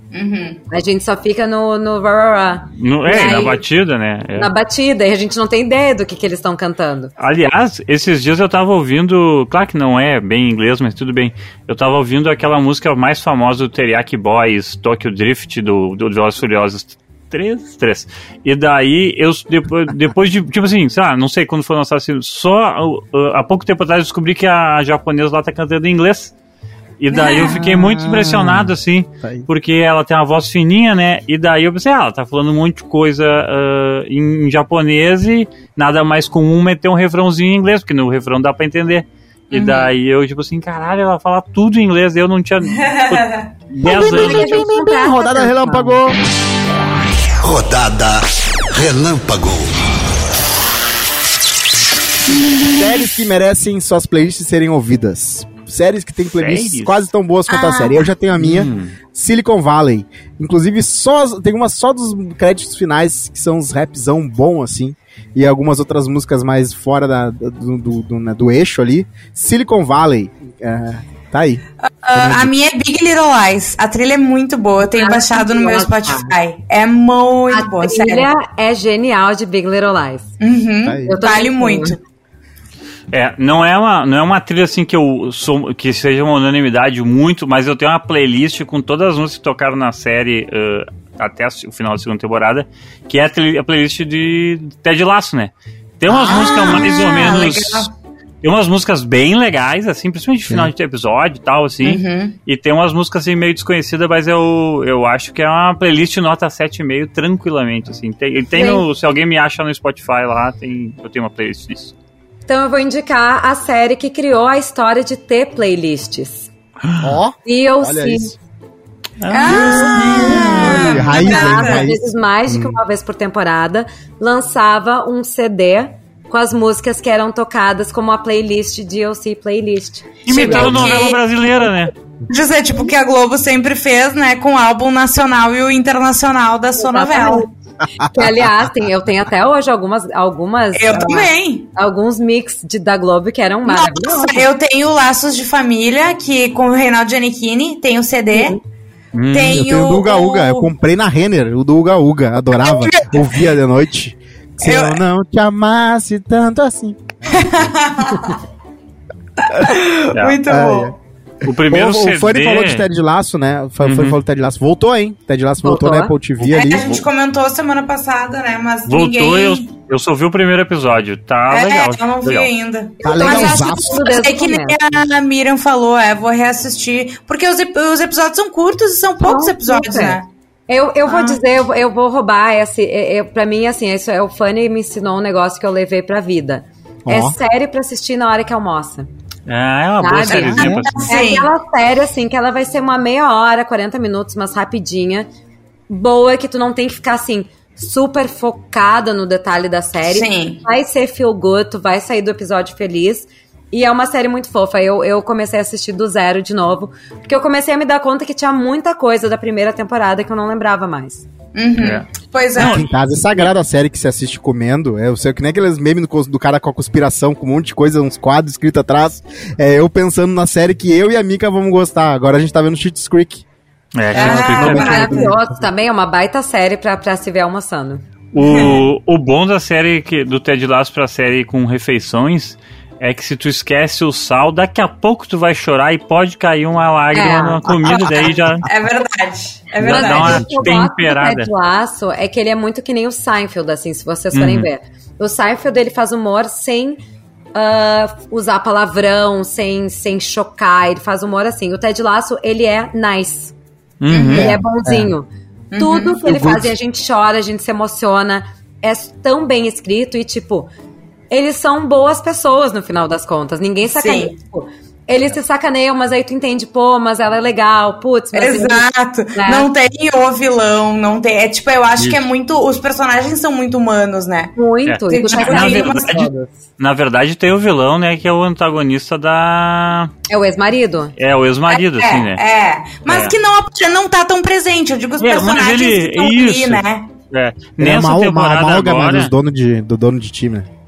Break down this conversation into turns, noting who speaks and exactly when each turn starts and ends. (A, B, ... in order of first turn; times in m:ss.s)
0:00.1-0:00.6 A
0:00.7-0:03.6 B
0:02.8-0:04.5 C
0:04.4-0:07.1 B
0:07.2-0:26.3 C
0:27.0-0:44.7 C
0:27.1-0:27.7 A
0:28.0-0:29.5 D
0:39.5-0:39.9 A
0:42.8-0:43.4 A
0:43.8-0:46.2 D
0:43.8-0:46.1 B
0:47.4-0:49.9 E
0:52.3-0:53.0 A
0:52.7-1:11.6 D
0:56.2-0:57.0 C
0:57.5-0:58.0 A
0:58.4-0:58.9 C
1:11.8-1:18.3 A
1:12.1-1:12.5 D
1:14.8-1:16.3 B
1:17.5-1:20.3 B
1:20.4-1:22.0 A
1:20.8-1:21.1 D
1:21.0-1:22.0 B
1:23.1-1:37.9 C
1:36.1-1:37.9 A
1:38.4-1:51.9 C
1:41.8-1:42.4 A
1:48.5-1:48.8 B
1:52.5-1:56.5 B
1:56.8-1:57.1 C
1:57.0-1:58.4 D
1:57.4-1:58.3 B
1:59.2-2:01.1 C
1:59.3-2:01.8 A
1:59.5-2:02.8 D
1:59.5-2:11.0 B
2:10.2-2:11.9 C
2:10.3-2:11.2 A
2:12.3-2:17.4 A
2:16.8-2:24.5 B
2:18.0-2:18.7 D
2:20.7-2:21.7 A
2:23.7-2:28.6 A
2:28.3-2:28.6 B
2:29.1-2:29.6 C
2:29.3-2:30.7 A
2:29.5-2:38.2 D
2:32.6-2:33.4 A
2:34.6-2:35.0 A
2:37.3-2:38.4 A
2:39.4-2:41.0 A
2:40.1-2:40.4 C
2:40.5-2:40.9 D
2:41.4-2:42.8 C
2:41.5-2:47.0 D
2:43.8-2:44.2 C
2:45.6-2:46.1 B
2:46.4-2:49.7 A
2:48.9-2:52.5 C
2:51.5-3:00.3 A
2:53.0-2:54.8 B
2:53.0-2:54.0 D
2:59.2-3:09.1 B
3:01.1-3:01.4 A
3:07.1-3:07.4 D
3:09.5-3:11.1 C
3:10.0-3:15.3 B
3:10.2-3:11.5 A
3:15.9-3:31.2 B
3:20.1-3:20.6 A
3:31.6-3:32.9 A
3:31.8-3:32.8 C
3:32.6-3:43.4 D
3:43.9-3:45.1 C
3:44.1-3:45.7 D
3:44.1-3:45.3 A
3:44.3-3:48.1 B
3:48.3-3:58.7 C
3:48.4-3:48.9 A
3:57.1-3:57.6 B
3:57.8-4:00.5 A
3:59.8-4:01.5 C
3:59.8-4:07.0 B
4:04.3-4:04.7 C
4:07.6-4:13.5 B
4:14.0-4:14.5 C
4:14.1-4:14.5 A
4:14.3-4:20.7 B
4:14.4-4:15.1 D
4:15.7-4:16.2 A
4:16.2-4:16.7 D
4:21.3-4:29.7 B
4:24.0-4:24.3 A
4:28.3-4:34.5 A
4:32.0-4:32.2 C
4:34.6-4:36.5 B
4:34.9-4:36.3 C
4:35.1-4:36.3 A
4:36.8-4:40.1 C
4:40.3-4:41.1 B
4:41.2-4:42.4 C
4:41.7-4:47.1 A
4:43.1-4:43.4 C
4:45.2-4:49.3 C
4:47.8-4:50.7 D